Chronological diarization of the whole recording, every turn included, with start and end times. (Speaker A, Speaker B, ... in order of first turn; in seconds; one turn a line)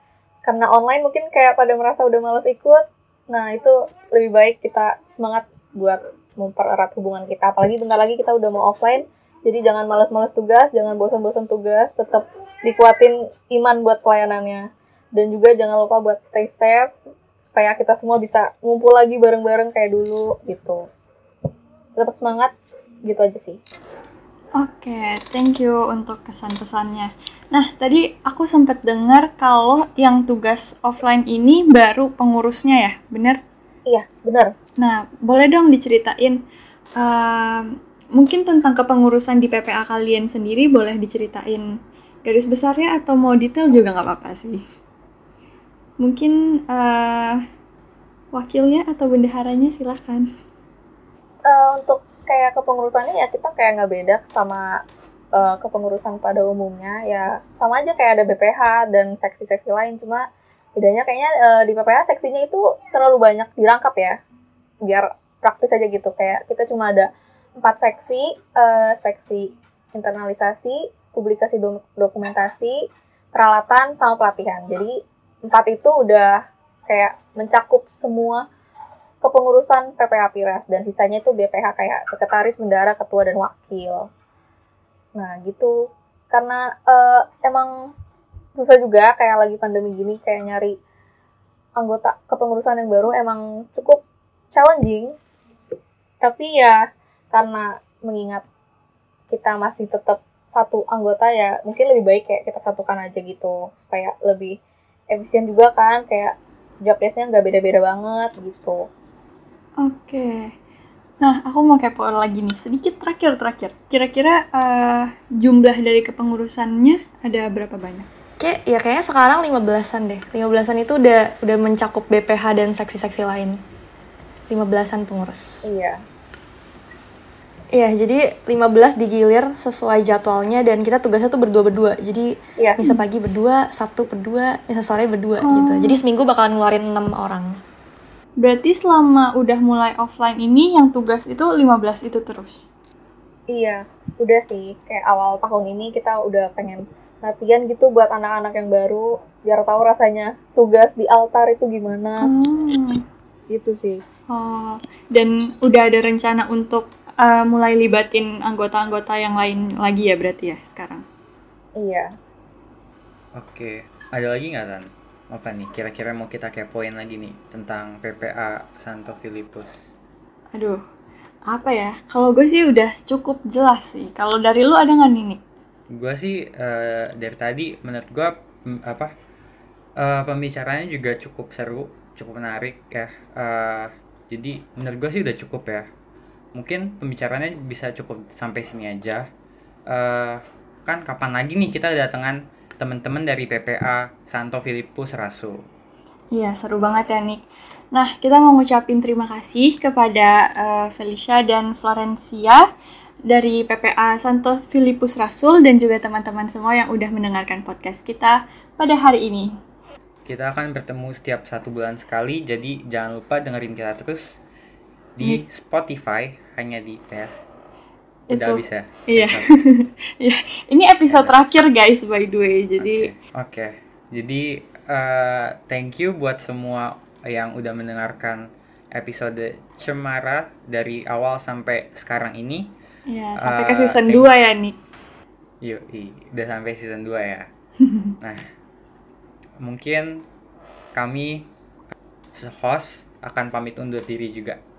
Speaker A: 0.5-14.6
Speaker A: 15.2-20.8
Speaker A: 22.0-22.5
Speaker A: 23.1-23.6
Speaker B: 24.6-33.4
Speaker A: 33.9-34.5
Speaker B: 34.8-36.4
Speaker B: 37.0-41.6
Speaker B: 42.2-44.6
Speaker B: 46.0-47.4
Speaker B: 48.3-50.3
Speaker A: 51.5-54.6
Speaker A: 55.4-60.2
Speaker A: 60.8-64.2
Speaker A: 64.8-67.1
Speaker A: 67.6-72.8
Speaker A: 73.3-74.9
Speaker A: 75.5-76.3
Speaker A: 76.9-78.5
Speaker A: 79.2-84.1
Speaker A: 85.2-85.7
Speaker A: 86.3-87.7
Speaker A: 88.6-90.7
Speaker A: 91.8-94.0
Speaker A: 94.5-95.1
Speaker A: 96.2-96.8
Speaker A: 97.3-98.5
Speaker A: 99.3-104.5
Speaker A: 105.1-108.8
Speaker B: 109.8-110.5
Speaker B: 111.2-118.1
Speaker C: 118.4-123.6
Speaker C: 124.5-125.6
Speaker A: 125.6-126.0
Speaker C: 127.8-137.5
Speaker B: 135.4-136.0
Speaker B: 138.4-142.7
Speaker A: 143.5-152.3
Speaker B: 152.2-153.0
Speaker A: 153.5-154.0
Speaker B: 154.3-161.1
Speaker A: 161.8-162.1
Speaker D: 163.4-169.8
Speaker B: 170.6-170.8
Speaker B: 171.5-175.4
Speaker D: 175.9-179.1
Speaker D: 180.0-185.9
Speaker D: 186.6-189.2
Speaker D: 189.9-195.6
Speaker B: 196.3-202.6
Speaker B: 203.3-209.5
Speaker D: 210.2-214.2
Speaker D: 215.2-217.3
Speaker B: 218.3-223.1
Speaker D: 218.3-219.5
Speaker D: 221.1-221.4
Speaker D: 222.8-232.7
Speaker B: 233.1-234.8
Speaker D: 233.4-234.3
Speaker D: 235.6-237.5
Speaker D: 239.6-240.1
Speaker D: 240.9-241.5
Speaker D: 242.3-244.6